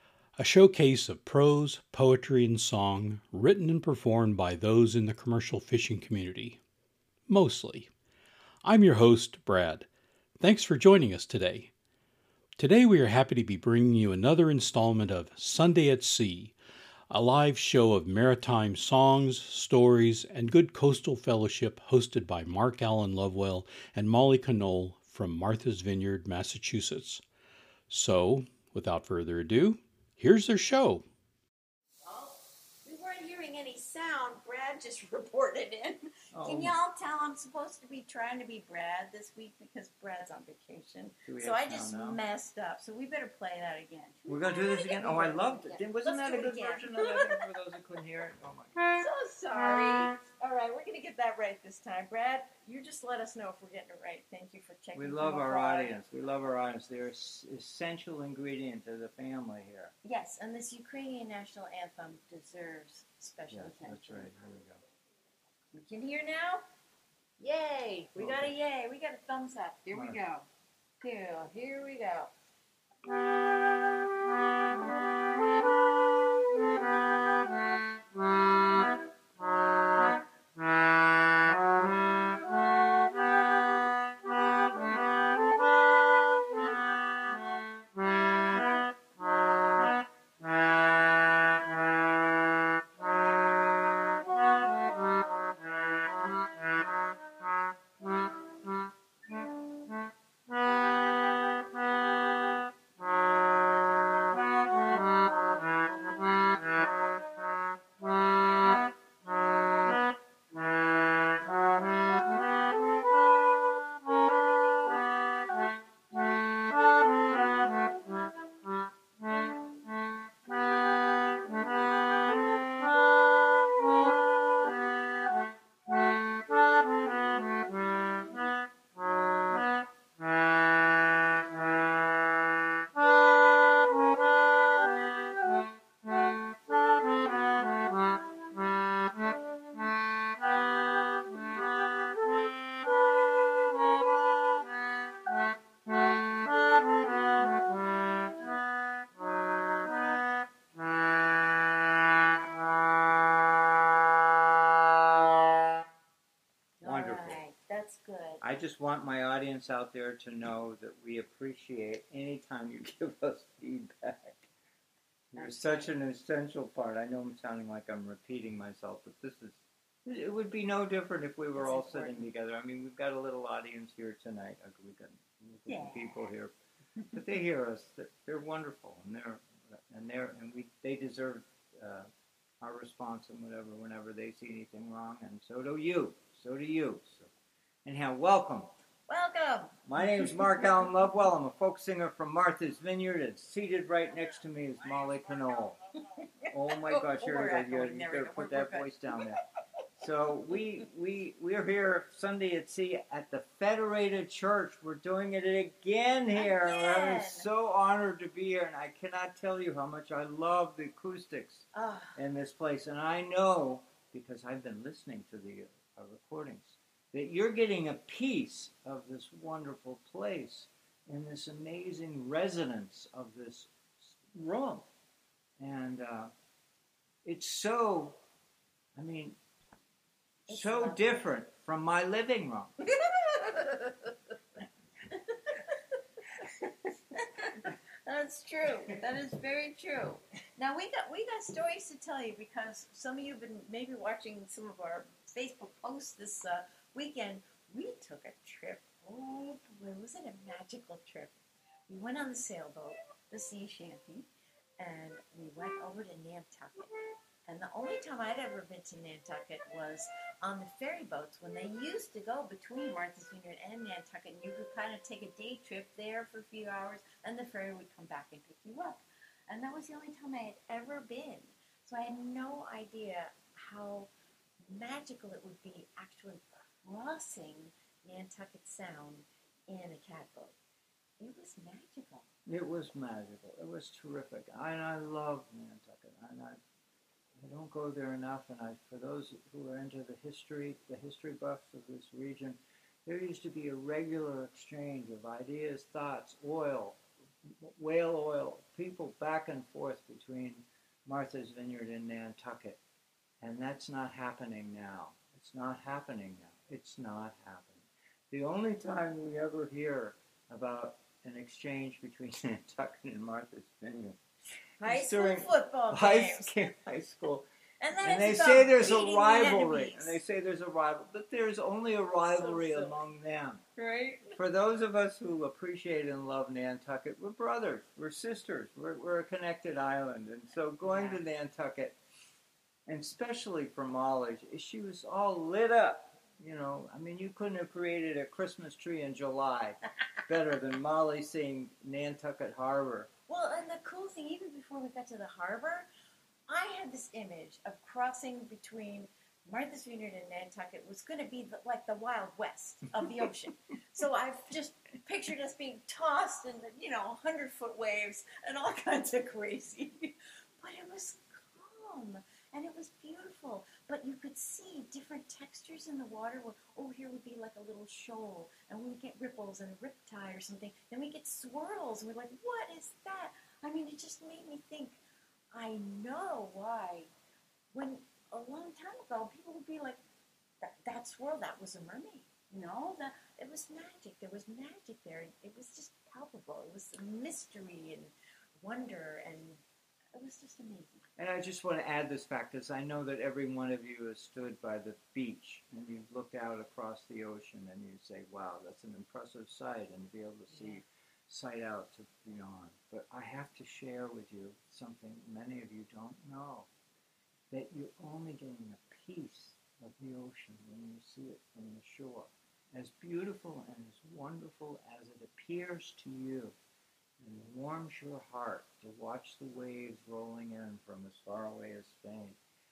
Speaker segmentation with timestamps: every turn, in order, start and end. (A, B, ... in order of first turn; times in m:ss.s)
0:00.4-0:06.6 A
0:07.3-0:07.9 A
0:08.6-0:09.9 A
0:10.4-0:11.7 A
0:12.6-0:16.5 A
0:17.1-0:27.2 A
0:27.9-0:31.0 A
0:32.1-0:47.4 B
0:36.3-0:36.8 C
0:41.3-0:42.2 C
0:44.3-0:48.8 C
0:48.9-0:56.0 B
0:55.0-0:59.9 C
1:00.0-1:04.3 B
1:03.5-1:04.8 C
1:05.7-1:06.6 B
1:07.4-1:10.5 B
1:08.2-1:08.5 C
1:09.9-1:10.2 C
1:11.0-1:12.3 B
2:36.8-2:38.4 B
2:36.8-2:37.4 C
2:38.4-2:44.4 C
2:45.3-2:56.5 C
2:45.4-2:45.9 B
2:51.6-2:52.3 B
2:55.7-2:56.3 B
2:57.1-3:02.1 C
3:02.6-3:07.3 C
3:07.8-3:08.7 C
3:09.1-3:09.8 B
3:09.9-3:15.8 C
3:16.2-3:19.2 B
3:16.5-3:19.4 C
3:20.0-3:31.6 C
3:26.3-3:27.5 B
3:31.7-3:32.2 B
3:32.2-3:44.9 C
3:45.6-3:46.3 C
3:47.2-3:48.2 C
3:49.0-3:49.4 C
3:50.5-3:51.2 B
3:50.5-3:52.7 C
3:53.0-3:54.1 B
3:57.2-4:11.4 B
4:11.9-4:14.3 B
4:14.8-4:16.9 B
4:17.4-4:34.1 B
4:34.7-4:40.6 B
4:41.2-4:42.3 B
4:42.5-4:46.6 C
4:47.4-5:02.8 C
5:03.4-5:14.2 C
5:14.8-5:16.7 B
5:14.8-5:17.5 C
5:17.8-5:20.2 B
5:18.0-5:23.6 C
5:22.4-5:23.0 B
5:23.8-5:24.4 B
5:24.4-5:32.0 C
5:30.8-5:31.2 B
5:32.9-5:43.1 C
5:43.3-5:45.9 B
5:46.5-6:15.0 B
6:15.5-6:17.1 B
6:17.7-6:20.0 B
6:20.6-6:29.6 B
6:30.1-6:31.1 B
6:31.2-6:46.7 C
6:40.5-6:40.8 B
6:47.5-6:56.6 C
6:57.2-7:02.4 C